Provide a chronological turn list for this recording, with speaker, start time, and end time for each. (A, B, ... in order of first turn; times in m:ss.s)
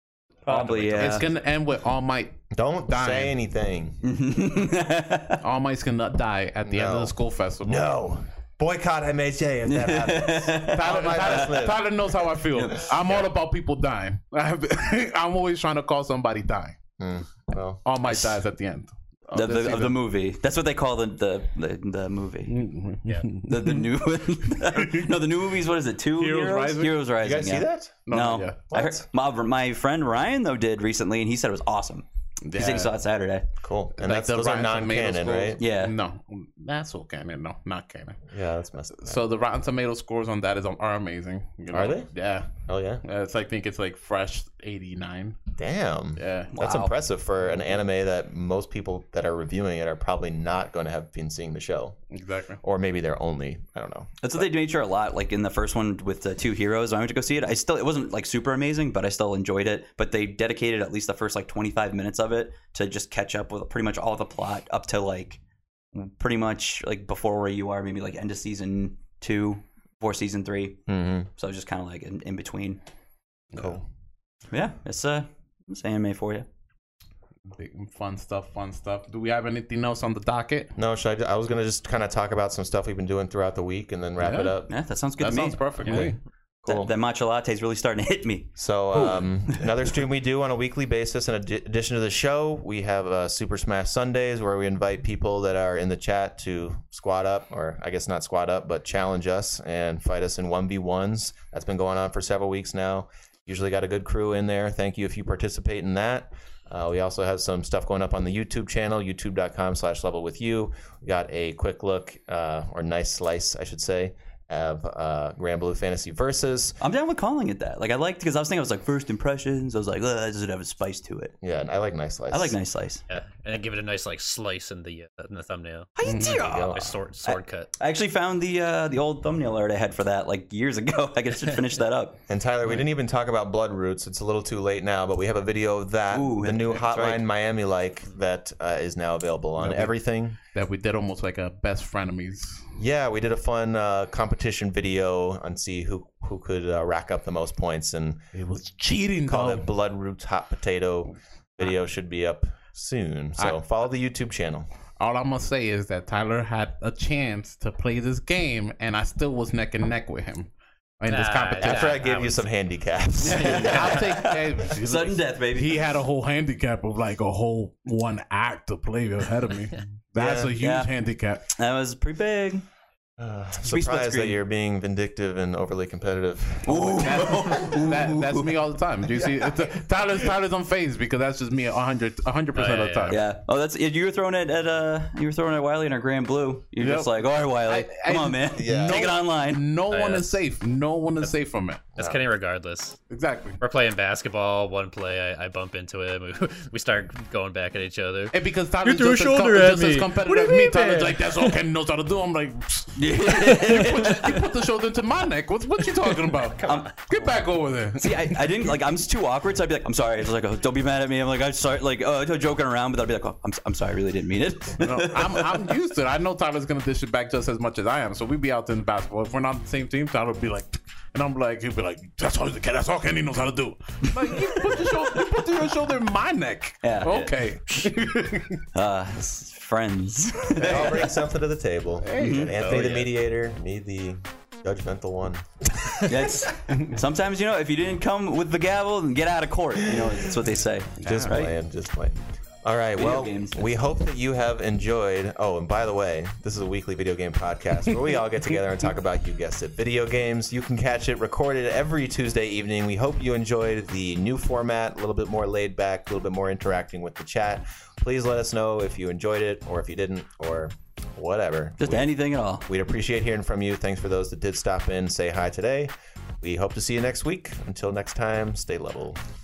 0:00.5-0:01.3 A
0:00.5-0:01.2 B
0:00.9-0:01.3 C
0:00.9-0:03.3 D
0:02.5-0:04.0 C
0:04.0-0:05.4 A
0:05.4-0:07.8 D
0:06.6-0:13.3 C
0:09.6-0:11.5 A
0:10.7-0:16.8 D
0:17.0-0:17.8 C
0:17.8-0:20.0 D
0:18.0-0:18.4 A
0:19.3-0:22.6 A
0:22.5-0:23.9 D
0:23.4-0:33.4 A
0:24.4-0:25.2 D
0:26.1-0:27.0 D
0:27.2-0:28.1 C
0:28.1-0:28.6 D
0:28.7-0:29.0 C
0:32.4-0:32.9 D
0:33.6-0:35.6 C
0:34.0-0:38.2 D
0:35.6-0:35.9 A
0:38.3-0:39.2 C
0:39.0-0:45.4 D
0:41.7-0:42.1 C
0:42.6-0:43.0 C
0:45.6-0:52.0 C
0:46.2-0:46.5 D
0:46.5-0:46.9 A
0:52.1-0:52.6 D
0:52.6-0:54.5 C
0:54.2-1:05.4 A
1:05.9-1:10.8 A
1:10.9-1:11.3 C
1:11.3-1:12.8 A
1:13.5-1:13.8 D
1:13.5-1:13.8 C
1:14.5-1:16.4 A
1:17.5-1:20.7 D
1:20.8-1:24.7 C
1:24.2-1:24.6 D
1:24.7-1:26.1 A
1:25.2-1:26.2 D
1:25.8-1:26.9 C
1:26.7-1:29.6 A
1:28.6-1:56.8 C
1:56.8-2:01.3 A
2:01.4-2:02.6 C
2:02.3-2:03.0 A
2:03.1-2:07.7 B
2:06.0-2:12.2 A
2:06.0-2:06.4 D
2:06.2-2:06.9 C
2:12.3-2:20.4 C
2:16.1-2:17.2 A
2:20.5-2:22.8 D
2:22.8-2:28.2 C
2:28.3-2:29.7 D
2:29.2-2:34.7 C
2:35.0-2:42.0 D
2:41.1-2:42.4 B
2:41.6-2:44.1 C
2:43.2-2:45.8 A
2:43.4-2:51.4 D
2:43.6-2:43.9 B
2:50.2-2:50.5 C
2:50.6-2:50.9 A
2:51.5-2:52.6 A
2:53.2-2:57.5 C
2:53.6-2:54.4 A
2:56.6-2:58.5 A
2:56.9-3:03.2 D
2:59.1-2:59.6 C
3:02.5-3:03.2 B
3:03.1-3:09.6 A
3:06.8-3:11.8 D
3:08.5-3:09.1 C
3:09.9-3:10.4 B
3:12.0-3:13.0 B
3:13.1-3:13.6 D
3:13.6-3:21.6 B
3:18.3-3:28.5 D
3:22.9-3:24.4 A
3:23.7-3:24.0 B
3:26.6-3:27.4 A
3:28.0-3:35.6 A
3:34.8-3:48.6 D
3:46.8-3:47.2 A
3:47.0-3:48.0 B
3:48.7-3:51.1 A
3:50.5-3:51.1 D
3:50.6-3:56.3 C
3:52.0-3:52.9 D
3:52.2-3:52.5 A
3:52.6-3:53.1 B
3:56.0-4:01.5 A
4:01.0-4:01.4 D
4:01.1-4:22.1 C
4:02.9-4:03.7 A
4:21.8-4:22.6 A
4:22.6-4:29.2 C